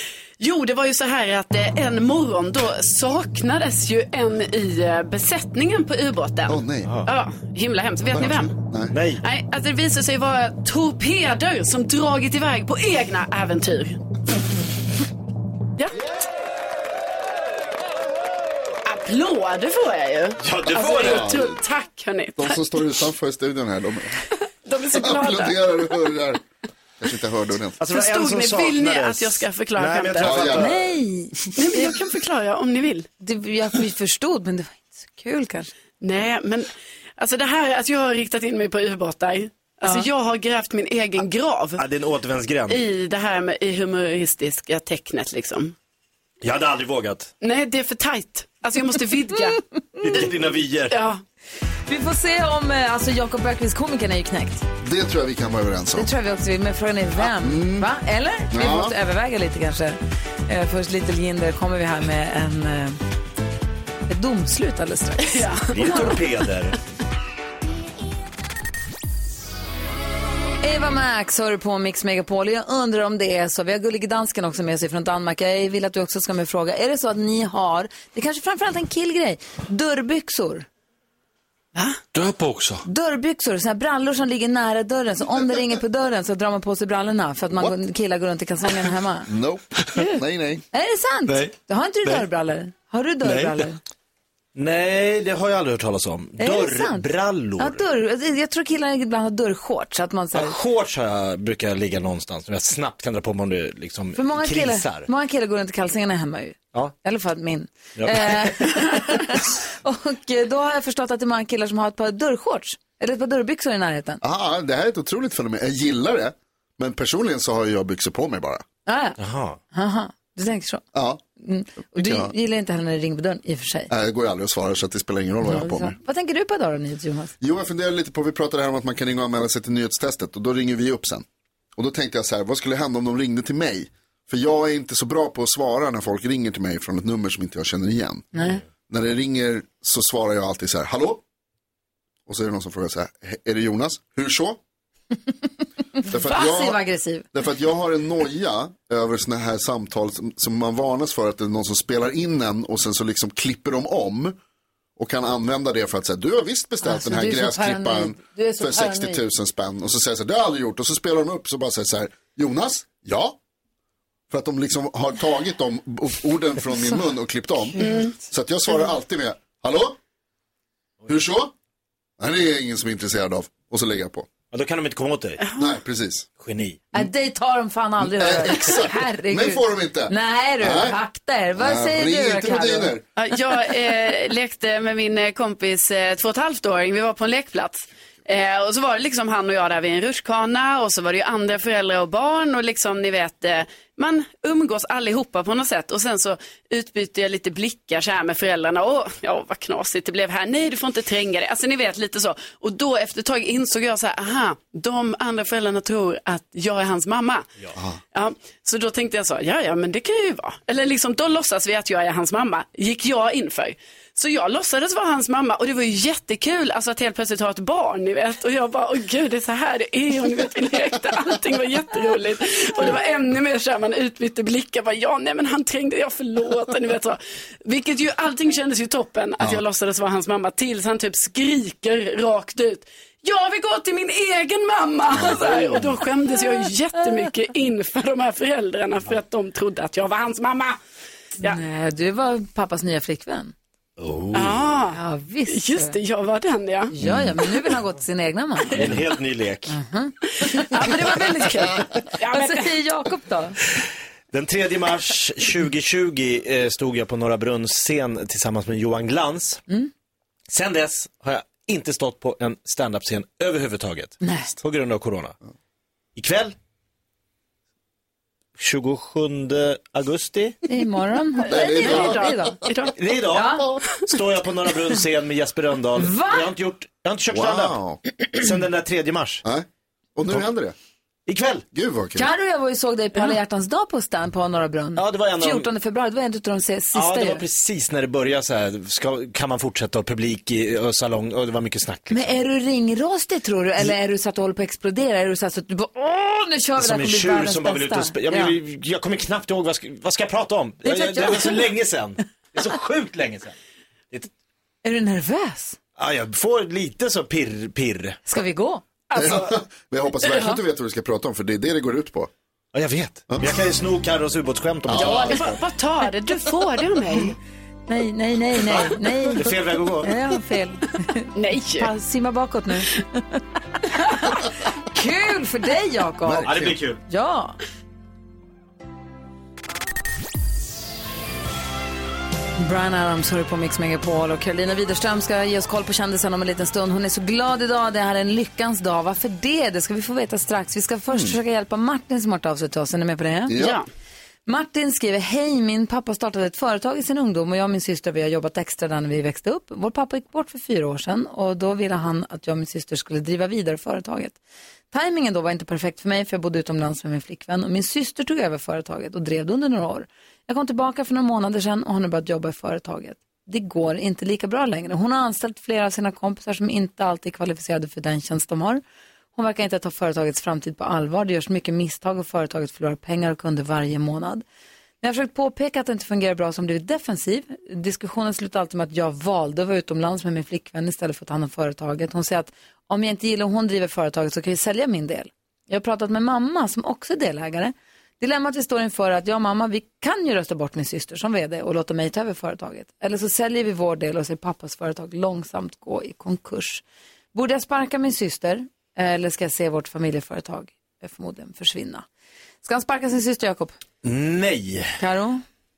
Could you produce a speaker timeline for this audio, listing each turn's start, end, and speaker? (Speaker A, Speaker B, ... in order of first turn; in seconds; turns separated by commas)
Speaker A: 0.4-8.6, Speaker B: 6.5-7.0, Speaker C: 6.8-7.1, Speaker B: 8.1-8.9, Speaker C: 8.9-9.2, Speaker A: 9.2-14.0, Speaker A: 18.9-22.6, Speaker C: 20.4-21.4, Speaker B: 21.0-21.6, Speaker B: 22.4-24.2, Speaker A: 24.6-25.6, Speaker B: 24.9-26.4, Speaker B: 27.0-27.8, Speaker C: 27.8-30.8, Speaker A: 27.9-30.4, Speaker B: 30.2-30.8, Speaker D: 30.5-31.9, Speaker A: 31.6-33.1, Speaker D: 33.2-35.7, Speaker A: 36.0-41.8, Speaker C: 41.8-42.8, Speaker A: 42.7-45.8, Speaker C: 46.4-47.3, Speaker A: 47.4-49.6, Speaker C: 50.0-51.0, Speaker A: 50.9-51.2, Speaker D: 51.9-54.6, Speaker B: 54.8-56.1, Speaker D: 56.0-63.0, Speaker B: 57.2-57.9, Speaker B: 58.5-59.0, Speaker D: 64.1-66.1, Speaker A: 65.2-66.1, Speaker C: 65.7-66.8, Speaker D: 70.6-80.7, Speaker A: 81.7-82.0, Speaker E: 82.1-82.8, Speaker D: 82.8-89.3, Speaker B: 89.3-90.6, Speaker D: 90.7-93.8, Speaker E: 91.3-92.2, Speaker E: 93.2-93.7, Speaker C: 94.5-97.8, Speaker D: 96.4-97.1, Speaker D: 97.6-100.6, Speaker C: 100.3-105.1, Speaker D: 104.2-114.2, Speaker C: 108.0-108.7, Speaker B: 114.2-118.6, Speaker D: 118.9-119.2, Speaker C: 119.2-119.6, Speaker D: 119.7-120.8, Speaker B: 120.9-121.2, Speaker D: 121.4-123.9, Speaker B: 122.0-122.3, Speaker B: 123.9-126.0, Speaker D: 125.4-127.3, Speaker B: 127.4-138.3, Speaker D: 138.3-138.6, Speaker B: 138.9-141.2, Speaker B: 142.3-144.6, Speaker B: 146.1-146.8, Speaker D: 146.2-147.3, Speaker B: 147.3-154.4, Speaker B: 155.0-163.4, Speaker D: 156.8-159.2, Speaker B: 164.3-170.0, Speaker D: 167.6-168.1, Speaker A: 167.8-168.2, Speaker B: 171.1-171.5, Speaker B: 172.2-174.3, Speaker C: 174.5-175.4, Speaker B: 175.6-176.3, Speaker C: 176.4-176.8, Speaker D: 176.9-182.9, Speaker B: 178.0-181.0, Speaker B: 181.6-183.0, Speaker A: 183.2-207.5, Speaker A: 208.1-240.8, Speaker B: 235.2-235.8, Speaker D: 241.4-243.5, Speaker C: 244.0-244.7, Speaker A: 244.3-246.9, Speaker D: 244.9-246.0, Speaker D: 246.9-248.8, Speaker C: 248.8-249.8, Speaker D: 249.7-253.6, Speaker A: 250.6-252.8, Speaker C: 253.8-259.6, Speaker C: 260.5-265.4, Speaker D: 264.2-264.5, Speaker C: 266.2-266.6, Speaker C: 268.6-270.6, Speaker D: 270.7-272.6, Speaker B: 271.4-272.5, Speaker A: 271.5-272.9, Speaker C: 272.9-277.8, Speaker D: 273.3-273.7, Speaker D: 276.0-276.5, Speaker B: 277.3-278.0, Speaker C: 278.3-279.4, Speaker B: 279.4-280.8, Speaker C: 281.3-281.6, Speaker B: 281.7-282.3, Speaker D: 282.2-287.4, Speaker C: 285.0-285.7, Speaker C: 286.9-292.4, Speaker D: 292.1-298.6, Speaker C: 296.8-303.6, Speaker D: 300.8-301.7, Speaker D: 304.8-305.8, Speaker C: 306.0-308.2, Speaker D: 308.2-308.9, Speaker A: 309.1-309.5, Speaker B: 309.1-312.3, Speaker C: 312.7-315.6, Speaker B: 314.9-315.6, Speaker A: 315.0-317.4, Speaker D: 317.9-327.6, Speaker C: 318.7-320.1, Speaker A: 321.3-321.9, Speaker B: 326.3-326.8, Speaker C: 326.4-327.0, Speaker D: 332.6-343.7, Speaker B: 343.5-343.8, Speaker A: 343.6-343.9, Speaker D: 344.5-354.4, Speaker D: 354.9-368.8, Speaker D: 369.4-374.4, Speaker D: 375.0-396.8, Speaker D: 397.3-402.1, Speaker D: 402.6-403.8, Speaker C: 404.0-405.0, Speaker D: 405.0-405.4